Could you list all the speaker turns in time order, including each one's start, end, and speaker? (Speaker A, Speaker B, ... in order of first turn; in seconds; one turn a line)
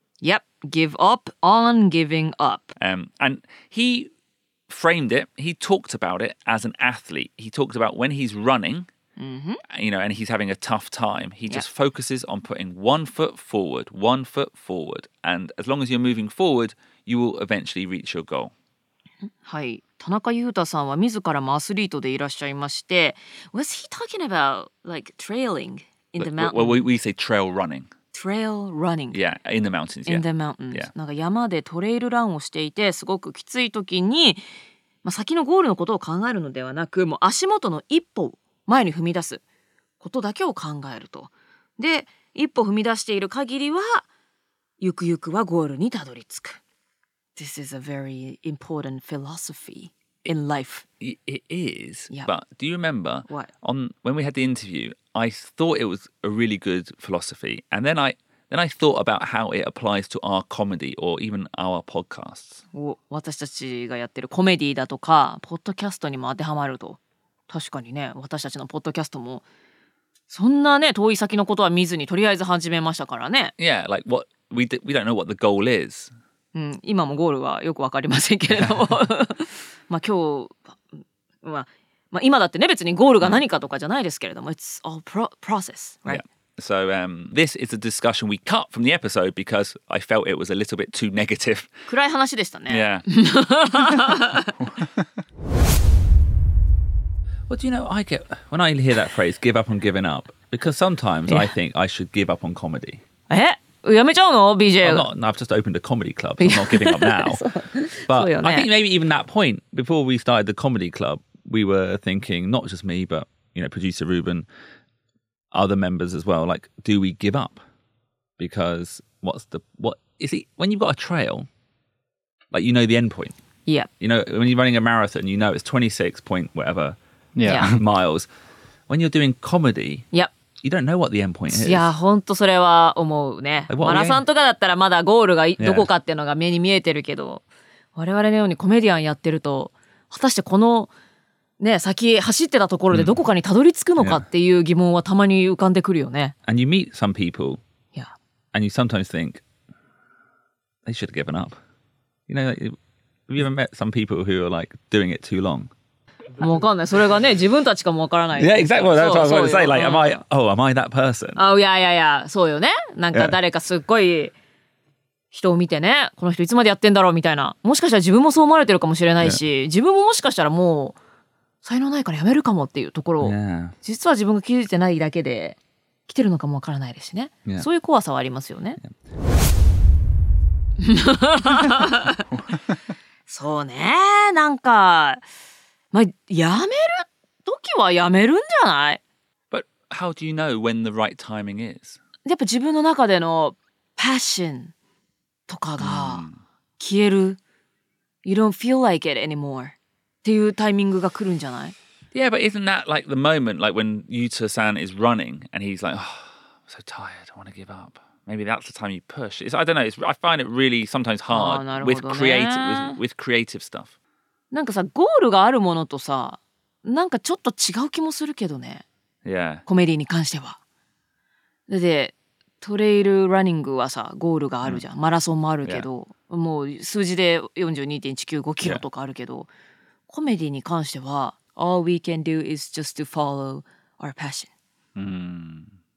Speaker A: 0.2-2.7
Speaker B: 2.8-4.1
Speaker B: 4.7-8.9
Speaker A: 9.2-9.6
Speaker B: 9.7-18.5
Speaker A: 19.2-26.9
Speaker B: 26.2-27.9
Speaker A: 28.1-29.2
Speaker B: 29.1-30.9
Speaker A: 30.1-34.5
Speaker A: 35.0-39.4
Speaker A: 40.0-44.1
Speaker A: 44.8-46.6
Speaker A: 47.4-50.9
Speaker B: 51.0-62.6
Speaker A: 62.7-69.4
Speaker A: 70.3-73.5
Speaker B: 73.6-76.1
Speaker A: 76.5-80.8
Speaker A: 81.4-86.2
Speaker B: 86.1-91.7
Speaker A: 91.9-94.6
Speaker B: 92.7-93.1
Speaker B: 93.8-95.0
Speaker B: 97.5-103.0
Speaker A: 101.3-101.5
Speaker A: 103.3-105.1
Speaker B: 104.8-107.4
Speaker A: 106.4-108.7
Speaker B: 108.1-114.5
Speaker B: 115.5-117.6
Speaker B: 118.4-121.5
Speaker B: 122.5-123.3
Speaker B: 124.0-128.3
Speaker A: 127.5-127.7
Speaker B: 128.9-130.1
Speaker B: 130.6-131.9
Speaker A: 131.5-137.4
Speaker B: 133.7-134.2
Speaker B: 135.6-135.9
Speaker A: 137.9-140.9
Speaker A: 141.6-146.3
Speaker B: 146.5-147.6
Speaker B: 148.5-149.4
Speaker B: 150.9-151.6
Speaker B: 152.3-152.8
Speaker B: 153.3-155.7
Speaker A: 156.4-160.2
Speaker B: 158.4-161.4
Speaker A: 161.4-164.3
Speaker A: 165.3-171.0
Speaker A: 171.6-175.6
Speaker B: 173.2-173.8
Speaker A: 176.1-178.8
Speaker A: 180.8-182.2
Speaker A: 183.3-185.2
Speaker A: 185.9-189.0
Speaker B: 189.5-192.0
Speaker A: 192.2-194.7
Speaker A: 195.5-196.3
Speaker B: 195.8-196.4
Speaker A: 196.8-197.4
Speaker A: 198.2-201.8
Speaker B: 202.1-213.9
Speaker A: 211.3-213.0
Speaker A: 214.5-218.8
Speaker B: 219.2-219.6
Speaker A: 219.7-220.6
Speaker A: 221.7-229.5
Speaker A: 230.1-234.5
Speaker B: 235.0-235.7